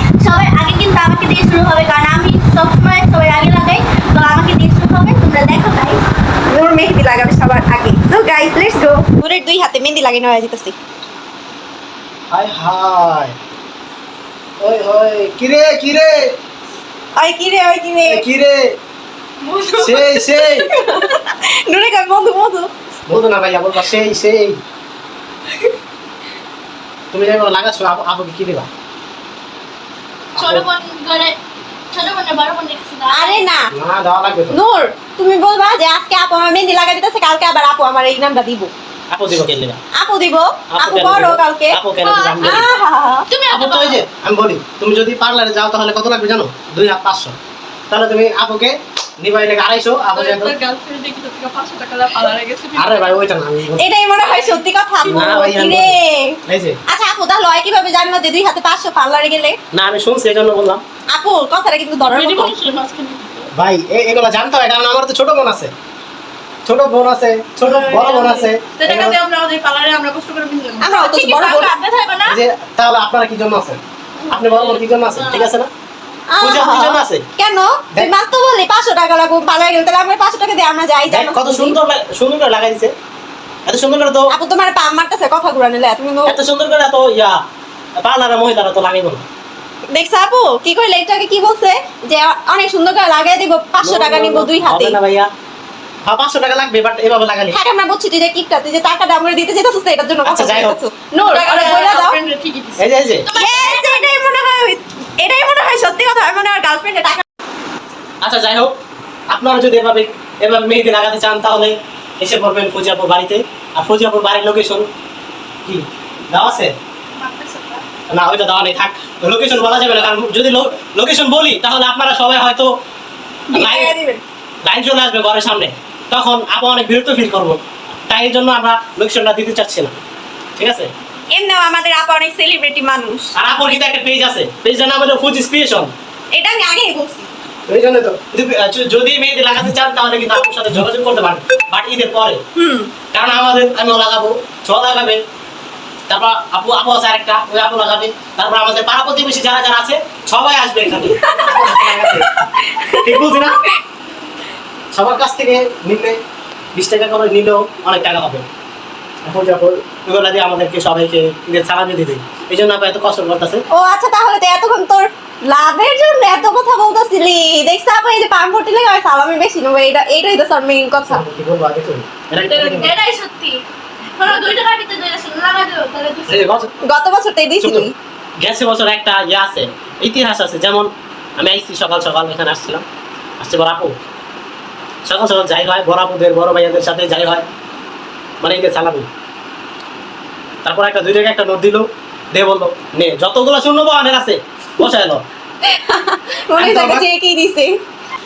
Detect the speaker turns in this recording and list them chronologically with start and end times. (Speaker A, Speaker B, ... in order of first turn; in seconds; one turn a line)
Speaker A: 0.2-6.0
Speaker B: 6.5-10.8
Speaker C: 12.3-13.3
Speaker C: 14.6-16.3
Speaker B: 17.1-18.2
Speaker C: 18.1-18.8
Speaker A: 19.4-19.8
Speaker B: 19.6-22.7
Speaker C: 19.7-20.7
Speaker C: 23.1-24.6
Speaker C: 27.1-28.7
Speaker C: 30.4-30.6
Speaker A: 30.4-31.4
Speaker A: 31.9-33.5
Speaker B: 33.1-33.7
Speaker C: 33.7-34.6
Speaker B: 34.5-38.7
Speaker C: 39.1-39.8
Speaker B: 39.9-41.8
Speaker C: 40.7-42.6
Speaker A: 42.0-42.6
Speaker B: 42.4-43.2
Speaker A: 43.3-44.0
Speaker C: 43.5-47.4
Speaker C: 47.9-50.5
Speaker A: 50.1-53.2
Speaker C: 52.8-53.9
Speaker B: 53.8-59.6
Speaker C: 55.0-56.8
Speaker C: 59.7-60.8
Speaker B: 61.1-62.5
Speaker A: 62.0-63.5
Speaker C: 63.5-65.7
Speaker C: 66.7-69.2
Speaker A: 67.6-72.4
Speaker B: 70.8-71.7
Speaker C: 72.2-75.7
Speaker A: 74.3-75.5
Speaker B: 76.3-81.8
Speaker C: 76.4-77.2
Speaker C: 81.1-82.9
Speaker C: 83.7-84.3
Speaker B: 84.3-86.4
Speaker C: 86.2-87.4
Speaker C: 88.0-89.2
Speaker B: 89.9-95.0
Speaker C: 93.8-95.3
Speaker C: 96.0-97.6
Speaker B: 97.5-102.2
Speaker C: 100.2-100.8
Speaker A: 101.3-104.0
Speaker C: 102.8-103.3
Speaker B: 103.3-107.2
Speaker C: 108.2-108.7
Speaker C: 109.3-114.9
Speaker C: 115.6-116.7
Speaker A: 117.2-117.8
Speaker C: 118.1-122.7
Speaker B: 123.5-124.2
Speaker C: 123.5-123.9
Speaker C: 124.6-130.0
Speaker C: 130.6-130.9
Speaker B: 131.3-133.3
Speaker C: 133.3-135.9
Speaker B: 136.3-137.3
Speaker C: 137.7-142.4
Speaker B: 142.6-142.9
Speaker C: 143.1-145.2
Speaker C: 146.1-152.3
Speaker B: 150.9-153.3
Speaker C: 153.0-153.6
Speaker C: 154.9-156.2
Speaker C: 156.7-158.5
Speaker C: 159.2-163.7
Speaker B: 163.7-171.2
Speaker C: 171.1-173.0
Speaker A: 172.4-173.6
Speaker A: 174.2-176.5
Speaker C: 176.3-176.7
Speaker B: 176.8-177.9
Speaker C: 177.6-182.8
Speaker C: 183.4-183.9
Speaker C: 185.0-187.4
Speaker C: 188.4-189.1
Speaker C: 190.6-195.2
Speaker B: 195.7-197.7
Speaker C: 196.6-197.1